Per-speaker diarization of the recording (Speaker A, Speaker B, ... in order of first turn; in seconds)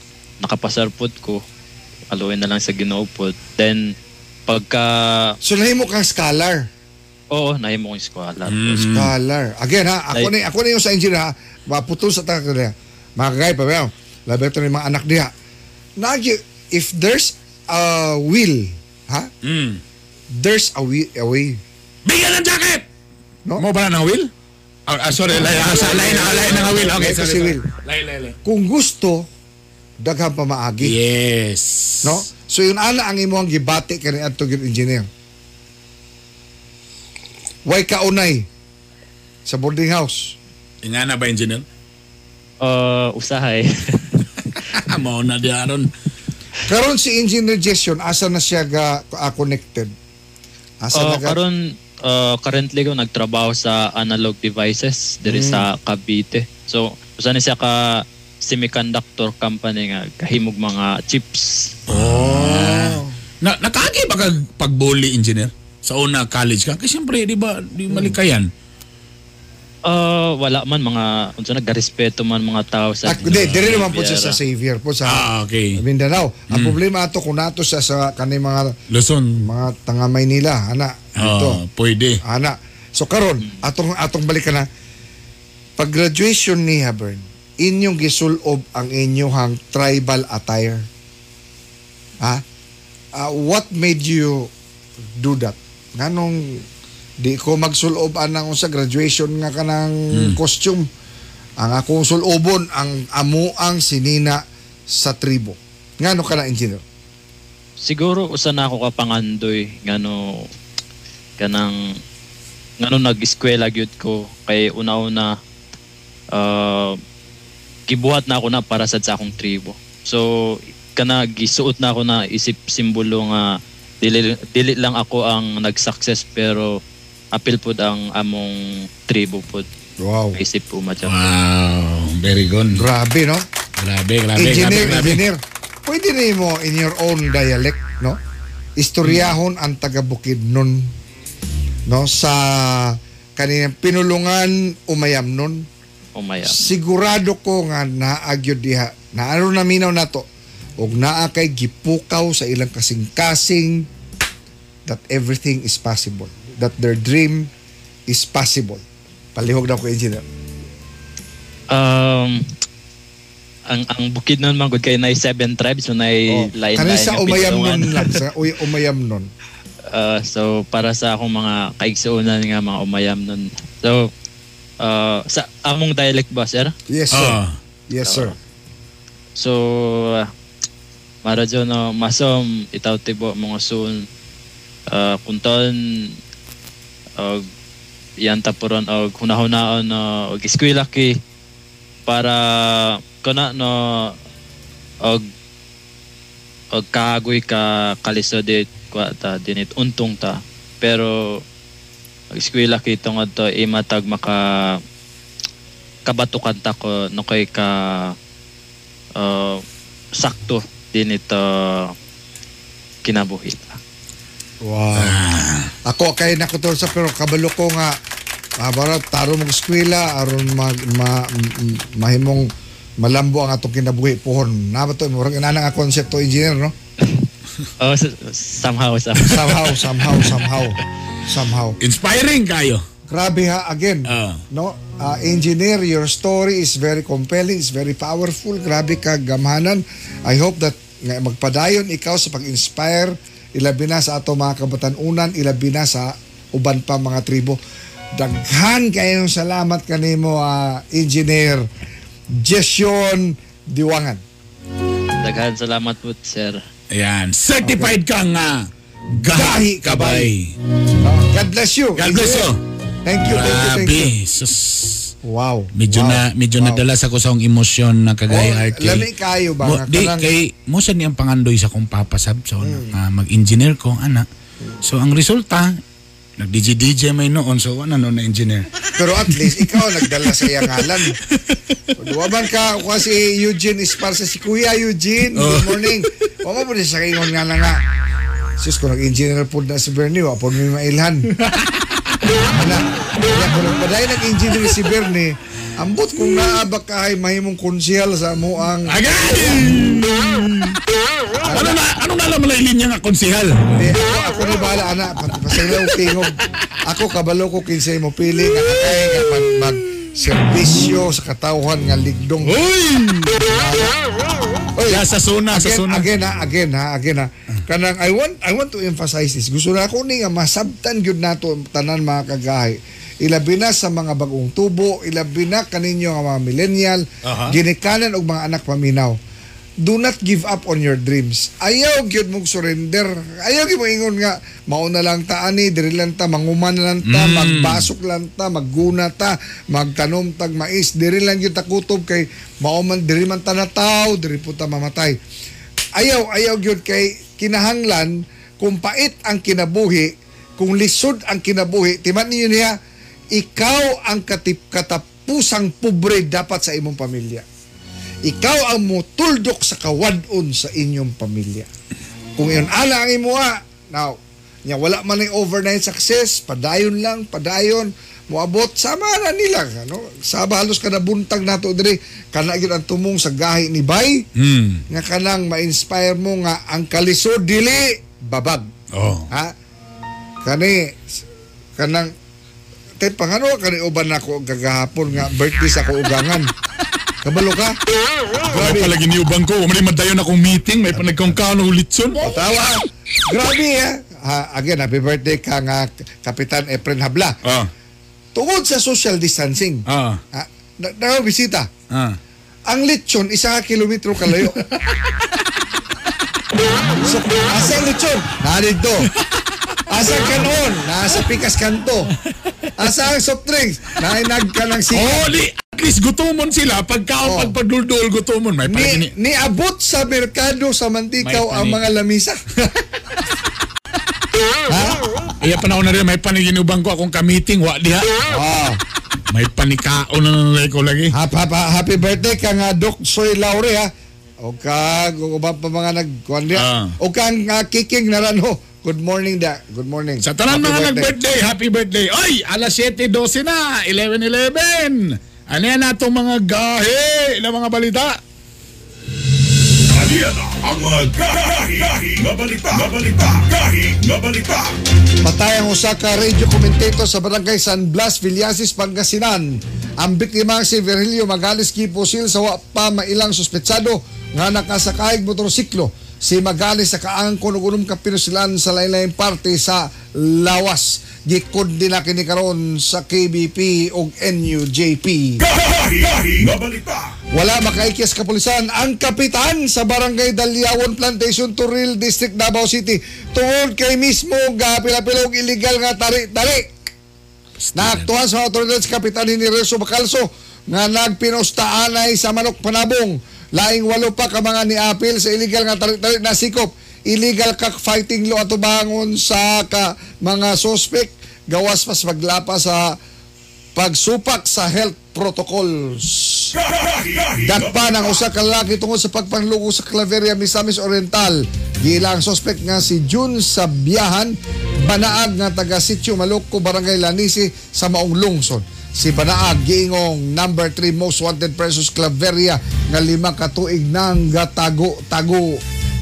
Speaker A: 0.4-1.4, 2.1-3.8, 4.5-5.3, 7.3-8.8, 42.6-43.6, 50.9-61.4, 69.9-74.4, 107.8-110.2, 111.4-111.7, 112.8-115.3, 116.3-116.9, 117.9-120.2, 121.0-123.4, 124.0-126.7, 127.3-128.6, 129.1-129.6, 130.3-131.2, 146.1-146.6, 161.7-162.4, 163.7-168.2, 169.9-174.1, 174.8-176.7, 178.1-178.3, 179.4-180.2, 181.2-184.0, 184.9-185.8, 188.2-191.1, 192.1-194.1, 196.7-201.4, 202.3-204.4, 206.1-208.1, 209.2-209.6, 210.2-211.9, 213.0-213.8, 227.8-229.5, 255.2-256.6
Speaker B: 5.4-6.6, 8.8-15.3, 16.0-19.3, 20.3-21.6, 25.4-27.6, 28.4-29.3, 30.0-30.9, 32.0-35.1, 37.6-38.5, 39.5-40.3, 46.6-49.9, 50.8-51.4, 55.2-55.7, 61.9-63.1, 73.0-78.7, 79.4-81.6, 82.2-84.7, 85.8-90.8, 93.1-94.5, 95.2-96.6, 97.2-100.8, 101.6-104.4, 104.9-106.8, 130.0-130.4, 132.7-133.4, 134.3-138.2, 138.8-140.9, 141.9-145.6, 146.5-150.3, 150.8-153.8, 154.9-157.5, 158.1-158.8, 159.3-160.2, 166.3-169.3, 176.9-178.3, 214.6-215.2, 215.9-217.9, 218.6-222.5, 223.0-226.7, 229.3-231.8, 233.1-247.6, 248.2-251.7, 252.4-254.2, 257.6-257.9, 259.3-260.3, 261.0-262.5, 263.0-264.1, 265.2-266.8, 268.3-270.3, 272.6-272.9, 279.0-281.1, 282.0-287.8, 288.6-291.3, 292.5-299.8, 301.4-301.8, 303.8-306.3, 306.8-312.6, 313.4-313.9, 314.8-329.1, 329.8-345.1, 346.0-352.7, 353.3-357.4, 358.2-361.7, 362.4-374.2, 374.9-378.7, 380.4-381.0, 381.8-382.1, 383.0-386.5, 387.2-387.7, 388.5-388.9, 390.9-391.4, 392.2-397.3, 398.3-399.8, 400.3-401.7, 402.7-404.6, 407.0-409.1, 409.9-412.1, 412.8-415.3, 417.2-417.5, 418.6-422.4, 424.7-425.0, 428.3-428.8, 431.1-433.9, 434.4-441.1, 455.2-475.4, 477.3-486.7, 487.8-502.9, 503.8-506.6, 507.4-525.6
Speaker C: 8.5-9.1, 19.4-19.8, 22.1-22.8, 23.6-24.3, 24.9-28.4, 30.8-32.2, 40.8-41.6, 44.8-45.9, 61.9-68.5, 73.3-73.8, 75.1-75.8, 76.5-76.8, 78.9-79.4, 81.2-82.2, 131.0-132.8, 133.8-135.2, 177.1-177.5, 214.9-215.7, 229.2-229.5, 231.8-232.8, 234.1-234.4, 256.9-258.7, 259.2-260.5, 262.0-262.6, 263.3-265.1, 265.8-269.1, 269.6-274.2, 274.8-275.7, 276.4-281.8, 285.3-286.3, 291.4-292.5, 298.9-300.8, 301.5-303.9, 305.6-306.2, 308.6-309.6, 312.4-313.4, 314.9-316.1, 327.2-327.6, 337.0-337.9, 374.4-374.8, 378.9-379.3, 388.5-392.4, 399.9-400.2, 401.9-402.2, 404.4-405.5, 409.2-409.8, 414.9-419.1, 421.2-421.8, 425.4-428.2, 429.3-431.1, 436.5-436.9, 440.2-448.2, 487.6-488.1
Speaker D: 449.9-454.8, 475.4-477.1, 506.6-508.2